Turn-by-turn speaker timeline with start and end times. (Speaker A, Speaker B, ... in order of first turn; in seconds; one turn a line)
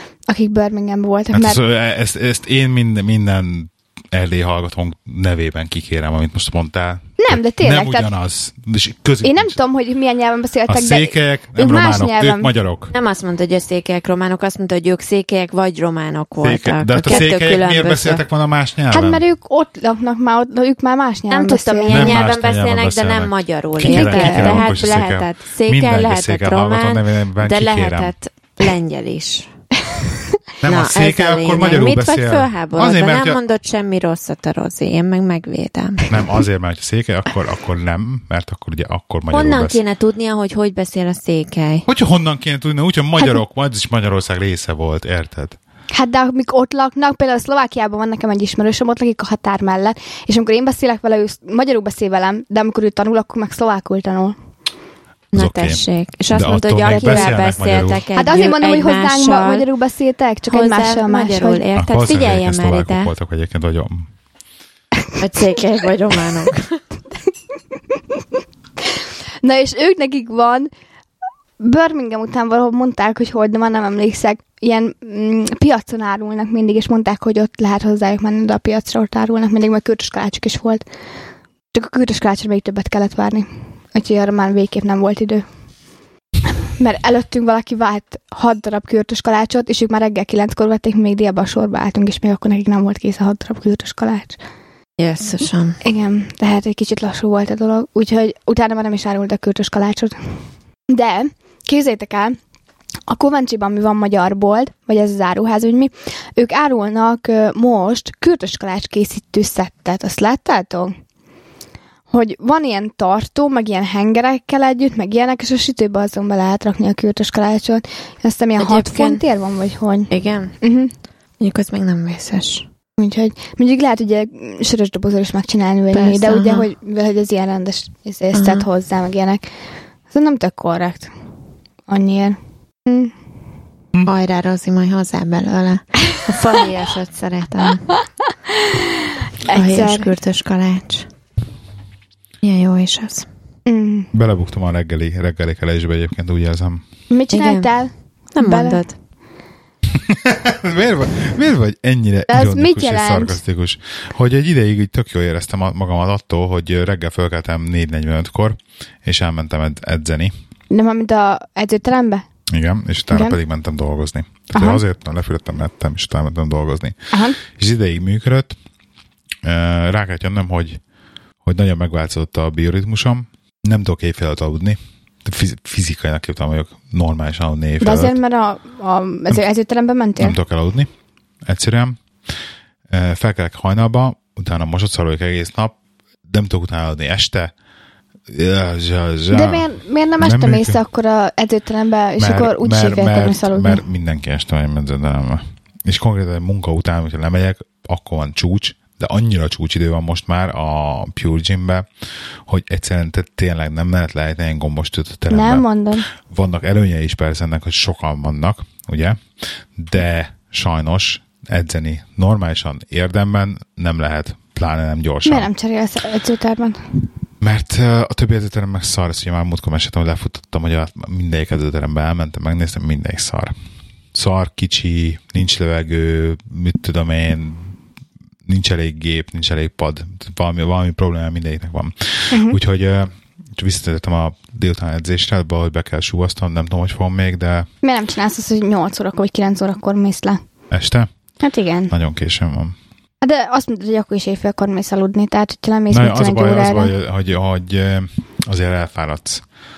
Speaker A: 0.3-1.6
Speaker B: 1.3-9.6
Speaker A: 7.2-8.1
Speaker A: 9.2-12.5
Speaker B: 10.7-12.9
Speaker C: 12.9-18.2
Speaker B: 16.4-19.2
Speaker A: 18.9-22.2
Speaker C: 21.3-29.5
Speaker B: 21.9-28.1
Speaker A: 23.9-24.6
Speaker B: 30.6-33.4
Speaker C: 30.6-36.1
Speaker B: 36.1-39.8
Speaker C: 39.3-41.9
Speaker B: 41.9-45.6
Speaker A: 45.9-54.4
Speaker C: 55.3-59.7
Speaker B: 55.3-58.1
Speaker A: 56.9-57.4
Speaker A: 58.1-61.6
Speaker C: 60.5-63.1
Speaker B: 61.8-64.1
Speaker C: 65.2-66.8
Speaker A: 69.4-70.7
Speaker A: 71.6-80.8
Speaker A: 81.7-85.5
Speaker A: 86.8-94.4
Speaker C: 95.0-95.8
Speaker A: 95.8-100.4
Speaker A: 100.9-102.4
Speaker A: 103.1-110.9
Speaker A: 112.1-120.9
Speaker C: 118.6-119.2
Speaker C: 120.1-120.5
Speaker C: 121.4-122.7
Speaker A: 123.0-129.4
Speaker C: 125.9-126.7
Speaker C: 128.3-128.7
Speaker A: 130.1-131.1
Speaker A: 131.9-133.1
Speaker C: 134.1-137.9
Speaker A: 139.5-140.1
Speaker C: 139.5-141.1
Speaker C: 142.4-143.3
Speaker A: 143.7-144.1
Speaker B: 144.1-146.8
Speaker A: 147.1-148.8
Speaker C: 147.3-147.7
Speaker C: 148.3-149.0
Speaker B: 149.9-160.3
Speaker A: 152.3-153.4
Speaker A: 160.7-162.2
Speaker B: 162.5-168.6
Speaker A: 163.1-163.4
Speaker A: 164.6-164.8
Speaker A: 167.1-167.4
Speaker B: 169.4-170.8
Speaker B: 171.4-178.2
Speaker A: 177.8-180.4
Speaker B: 180.2-180.9
Speaker B: 181.5-182.0
Speaker B: 182.9-187.5
Speaker B: 188.3-190.8
Speaker A: 189.3-193.8
Speaker B: 192.2-201.9
Speaker B: 202.5-205.7
Speaker A: 205.3-206.1
Speaker B: 206.2-215.5
Speaker A: 215.3-216.9
Speaker B: 217.4-223.5
Speaker B: 224.1-227.8
Speaker B: 228.4-237.7
Speaker A: 232.3-232.6
Speaker A: 237.8-240.4
Speaker B: 240.7-241.1
Speaker A: 241.4-241.9
Speaker B: 241.9-242.8
Speaker A: 243.2-246.9
Speaker B: 245.9-249.4